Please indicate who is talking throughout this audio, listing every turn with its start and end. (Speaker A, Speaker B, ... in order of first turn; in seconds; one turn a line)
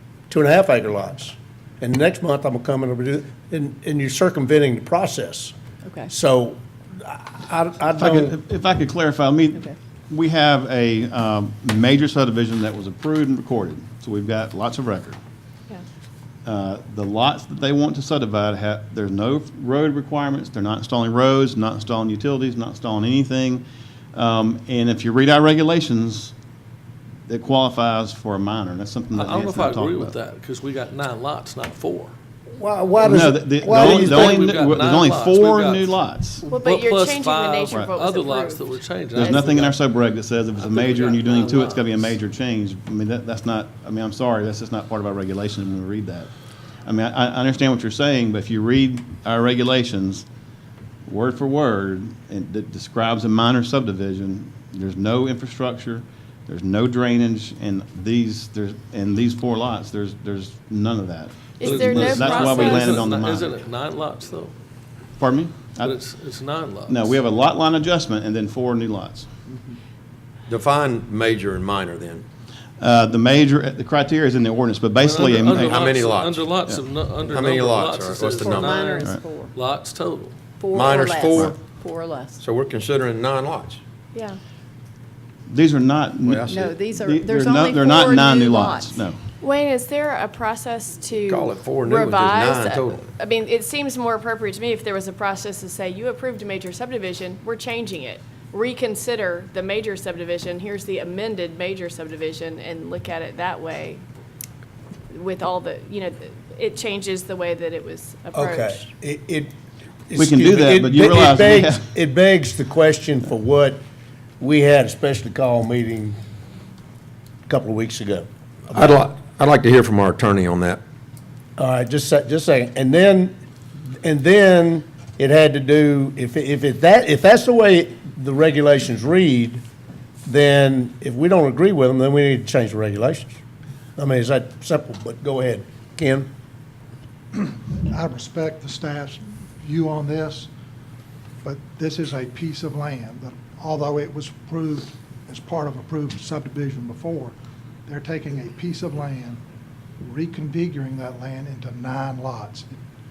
Speaker A: 0.3-5.5
Speaker B: 5.8-6.1
Speaker A: 6.1-8.3
Speaker C: 8.0-15.2
Speaker C: 16.4-26.3
Speaker C: 27.3-30.1
Speaker D: 29.1-32.1
Speaker A: 32.5-34.5
Speaker C: 33.0-36.4
Speaker D: 33.7-39.8
Speaker E: 36.5-39.6
Speaker C: 39.1-46.3
Speaker D: 40.6-42.1
Speaker C: 46.8-50.2
Speaker C: 51.0-63.5
Speaker E: 61.6-63.0
Speaker D: 61.6-64.5
Speaker C: 65.2-66.0
Speaker D: 65.8-67.2
Speaker C: 66.9-69.3
Speaker F: 70.5-72.2
Speaker C: 72.8-75.6
Speaker D: 75.0-80.3
Speaker F: 75.2-76.6
Speaker F: 77.3-79.0
Speaker B: 78.4-79.5
Speaker B: 80.6-82.4
Speaker F: 80.7-81.5
Speaker F: 82.4-83.8
Speaker E: 84.1-84.4
Speaker C: 85.5-89.2
Speaker F: 86.2-86.7
Speaker B: 86.5-89.0
Speaker E: 89.4-104.0
Speaker F: 91.2-93.0
Speaker E: 105.1-108.8
Speaker A: 108.3-109.5
Speaker A: 110.1-113.8
Speaker C: 110.2-111.8
Speaker A: 114.4-116.2
Speaker A: 117.5-119.0
Speaker F: 118.7-120.8
Speaker A: 121.6-123.3
Speaker A: 124.0-129.6
Speaker A: 130.2-133.4
Speaker A: 134.0-136.3
Speaker G: 137.3-140.5
Speaker G: 141.4-147.3
Speaker G: 147.9-149.4
Speaker G: 150.0-152.8